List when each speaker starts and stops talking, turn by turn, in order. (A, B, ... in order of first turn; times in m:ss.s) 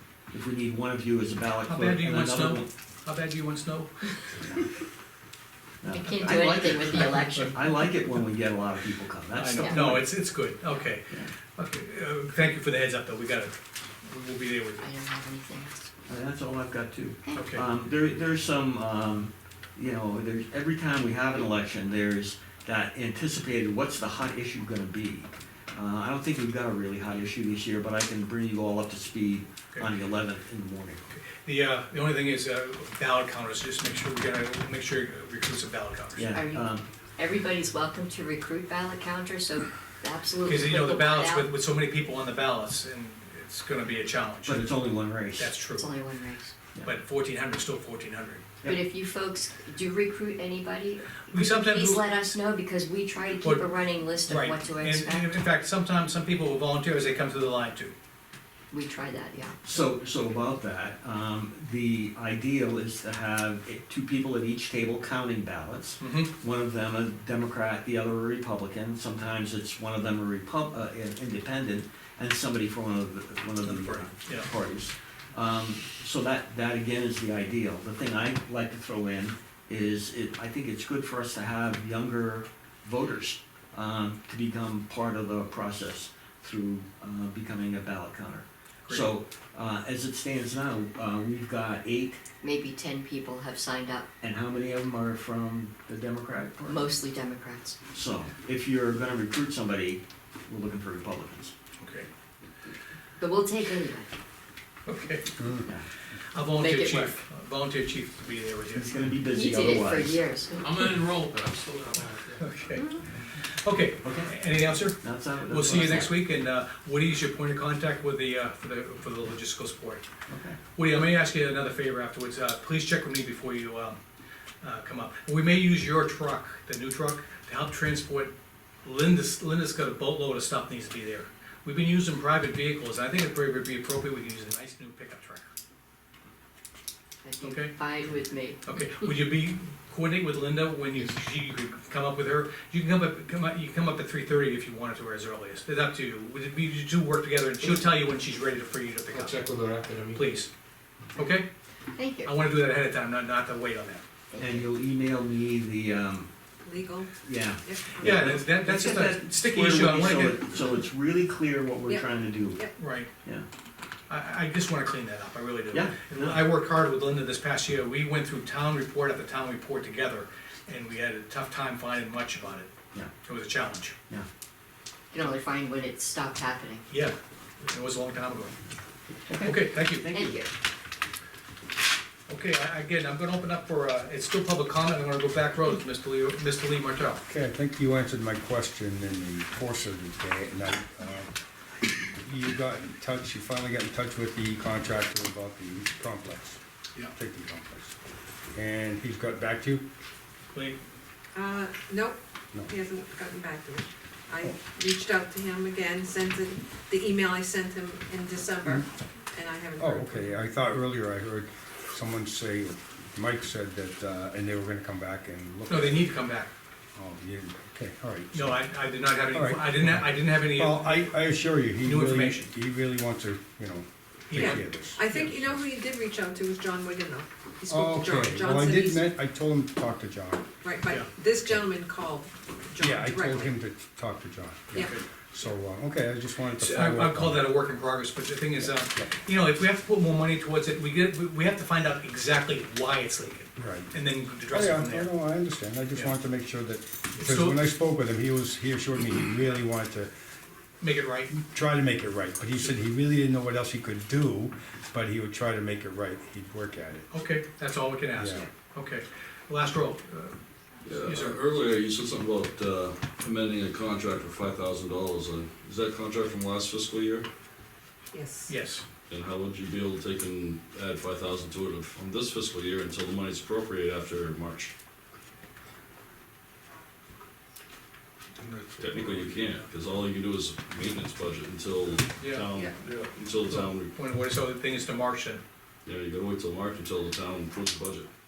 0:00.3-0:02.7 A
0:01.6-0:04.2 B
0:05.8-0:10.1 A
0:05.9-0:07.6 C
0:06.9-0:07.5 B
0:09.3-0:14.9 B
0:09.6-0:09.9 C
0:14.8-0:15.9 C
0:16.1-0:31.0 A
0:17.4-0:17.7 B
0:31.1-0:36.3 B
0:36.2-0:36.9 A
0:36.3-0:36.7 C
0:37.2-0:41.5 C
0:40.5-0:44.8 B
0:44.5-0:45.5 A
0:45.4-0:46.1 B
0:45.8-0:46.5 C
0:46.8-0:48.6 B
0:48.7-0:55.3 C
0:51.2-0:52.3 B
0:53.4-0:53.7 B
0:54.3-0:57.9 B
0:58.7-0:59.6 C
0:59.6-1:32.3 A
1:06.0-1:06.3 B
1:13.6-1:14.5 B
1:32.4-1:34.1 C
1:34.2-1:36.9 A
1:36.7-1:37.8 C
1:37.9-1:41.6 A
1:41.8-1:42.1 B
1:43.2-1:44.1 C
1:44.9-1:45.6 B
1:45.4-1:45.7 D
1:46.3-1:48.9 B
1:46.5-1:47.2 C
1:48.7-1:50.2 A
1:49.3-1:51.1 C
1:50.6-1:52.3 E
1:52.4-2:00.0 B
1:52.8-1:53.0 C
1:54.0-1:54.3 A
1:55.0-1:56.1 A
2:00.3-2:00.6 A
2:00.8-2:04.0 B
2:04.6-2:08.3 B
2:08.8-2:15.5 B
2:17.2-2:18.6 C
2:17.4-2:17.9 B
2:18.6-2:29.6 B
2:29.1-2:30.3 E
2:30.1-2:30.5 B
2:31.2-2:31.5 B
2:32.0-2:32.3 C
2:32.2-2:34.0 B
2:34.3-2:34.6 C
2:34.4-2:36.3 A
2:36.6-2:37.1 F
2:37.2-2:42.7 A
2:37.6-2:38.2 F
2:38.0-2:40.4 B
2:41.9-2:42.7 F
2:42.8-2:43.1 B
2:44.1-2:52.7 B
2:45.7-2:46.4 A
2:53.2-2:54.0 B
2:55.1-2:56.8 C
2:56.9-2:58.6 B
2:59.4-3:00.1 B
2:59.9-3:00.4 A
3:00.1-3:00.5 C
3:02.3-3:07.2 B
3:07.3-3:11.3 D
3:12.0-3:16.6 D
3:17.1-3:18.0 D
3:18.5-3:19.8 D
3:21.3-3:30.4 F
3:29.8-3:36.2 D
3:35.7-3:36.5 B
3:37.0-3:38.6 D
3:38.3-3:42.5 B
3:39.3-3:45.0 D
3:44.3-3:45.6 B
3:44.3-3:49.1 F
3:47.7-3:50.5 D
3:50.6-3:53.5 F
3:52.8-3:57.5 D
3:56.5-4:05.3 B
3:58.8-3:59.1 D
4:03.6-4:10.1 D
4:07.2-4:07.6 B
4:10.8-4:11.3 B
4:11.3-4:17.1 D
4:17.1-4:20.4 B
4:18.2-4:18.5 D
4:20.8-4:27.3 G
4:21.0-4:21.4 B
4:28.1-4:28.6 F
4:28.5-4:28.8 B
4:29.1-4:34.7 G
4:38.4-4:39.6 E
4:38.8-4:44.0 G
4:42.2-4:42.6 B
4:42.5-4:42.8 F
4:43.4-4:45.4 B
4:45.9-4:48.1 G